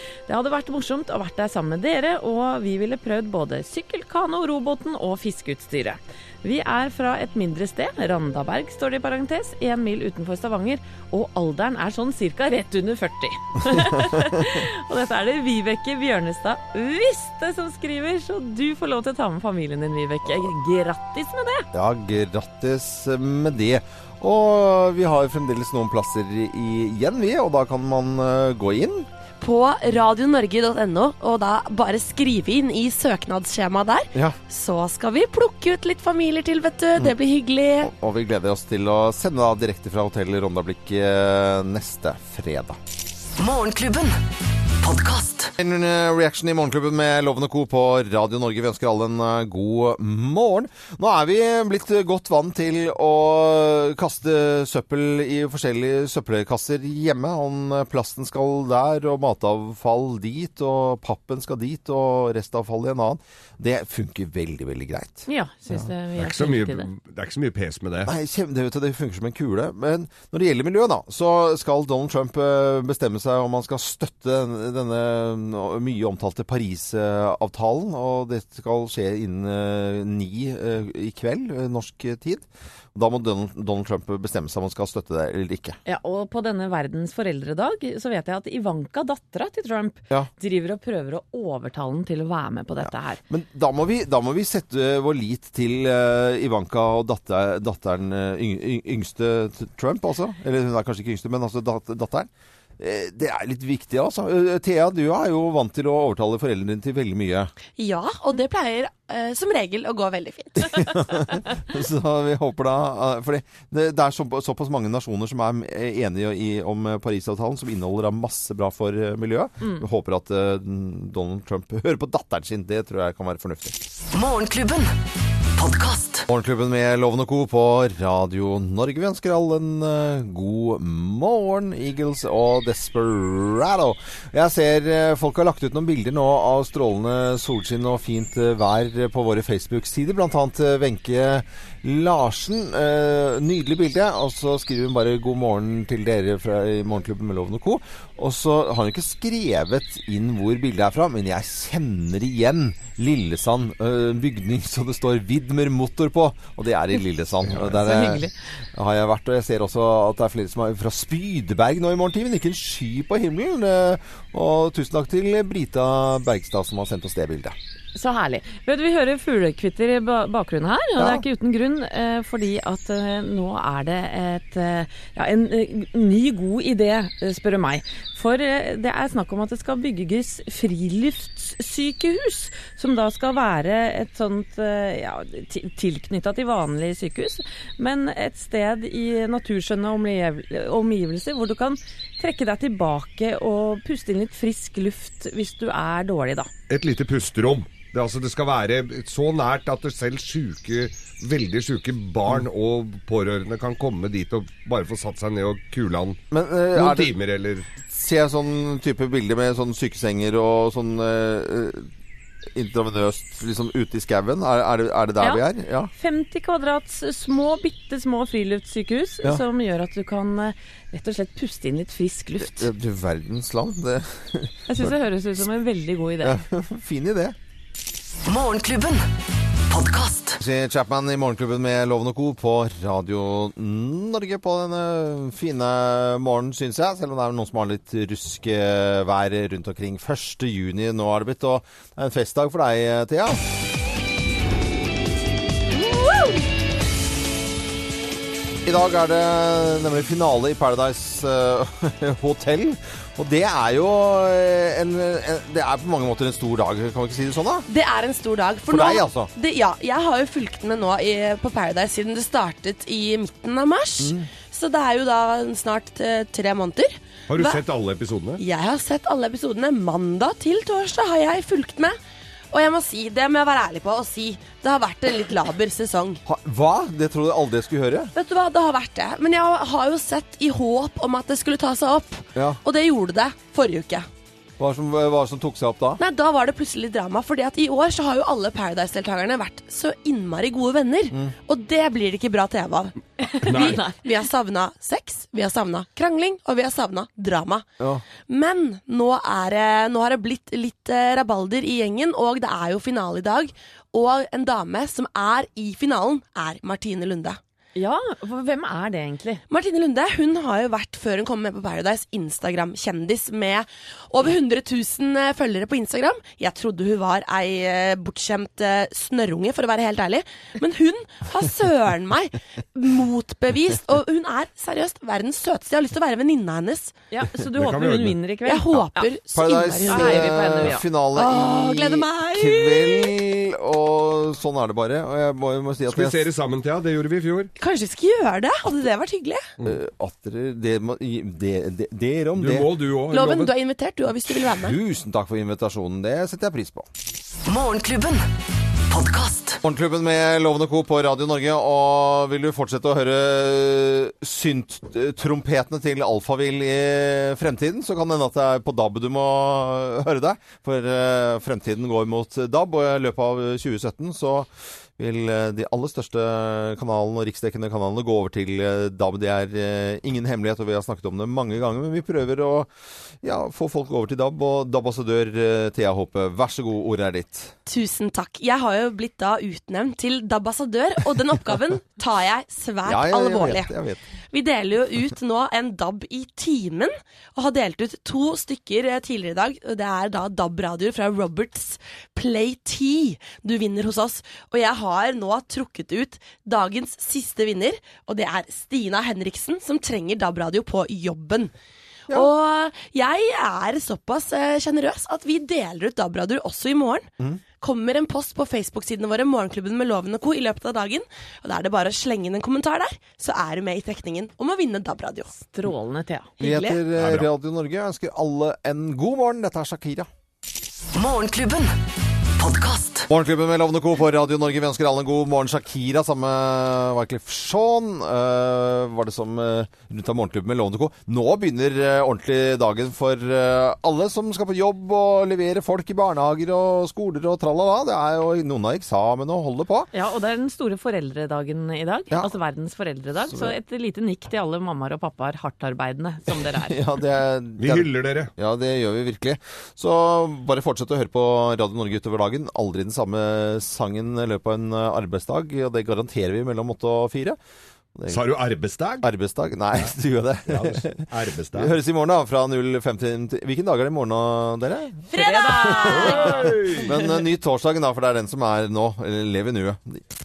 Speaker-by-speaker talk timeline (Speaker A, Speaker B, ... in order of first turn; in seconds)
Speaker A: 0.3-21.7, 65.3-66.9, 85.8-93.2, 157.6-158.3, 167.9-196.5, 215.9-222.7, 224.7-226.3, 293.2-294.0, 307.7-309.4, 327.1-329.1, 329.9-330.9, 415.5-416.8, 439.9-446.8, 465.1-466.6
Speaker B: 21.7-29.1, 37.8-42.8, 45.6-65.2, 68.0-85.8, 93.3-107.5, 110.6-123.8, 126.3-167.5, 171.0-171.2, 206.3-207.1, 207.8-211.9, 212.5-215.9, 222.4-224.9, 226.2-227.3, 230.4-243.4, 248.6-257.7, 258.7-259.3, 264.0-264.3, 276.2-278.1, 282.4-282.6, 284.6-286.0, 329.3-336.3, 339.6-342.7, 344.5-346.9, 349.6-372.7, 373.2-377.6, 382.8-384.0, 416.4-420.1, 423.1-439.9, 446.5-457.4, 457.9-458.2, 459.0-470.0
Speaker C: 29.4-37.9, 107.8-110.9, 257.7-267.6, 268.4-272.0, 272.5-276.2, 278.1-284.1, 286.0-297.6, 298.3-307.4, 309.5-326.9, 328.4-333.1, 337.6-339.4, 343.1-344.8, 377.7-383.7, 384.3-401.5, 402.1-415.3
Speaker D: 43.4-44.2, 44.8-45.5, 124.1-124.9, 125.5-126.2, 228.2-229.1, 229.7-230.4, 347.4-348.2, 348.9-349.6, 420.9-421.8, 422.4-423.1
Speaker E: 66.2-68.1, 196.7-206.2, 206.7-207.7, 267.3-268.4, 293.4-293.8, 327.6-328.2, 335.9-337.5, 342.4-343.5, 417.0-417.3, 447.6-448.3, 458.1-459.1, 460.5-461.8, 465.9-466.9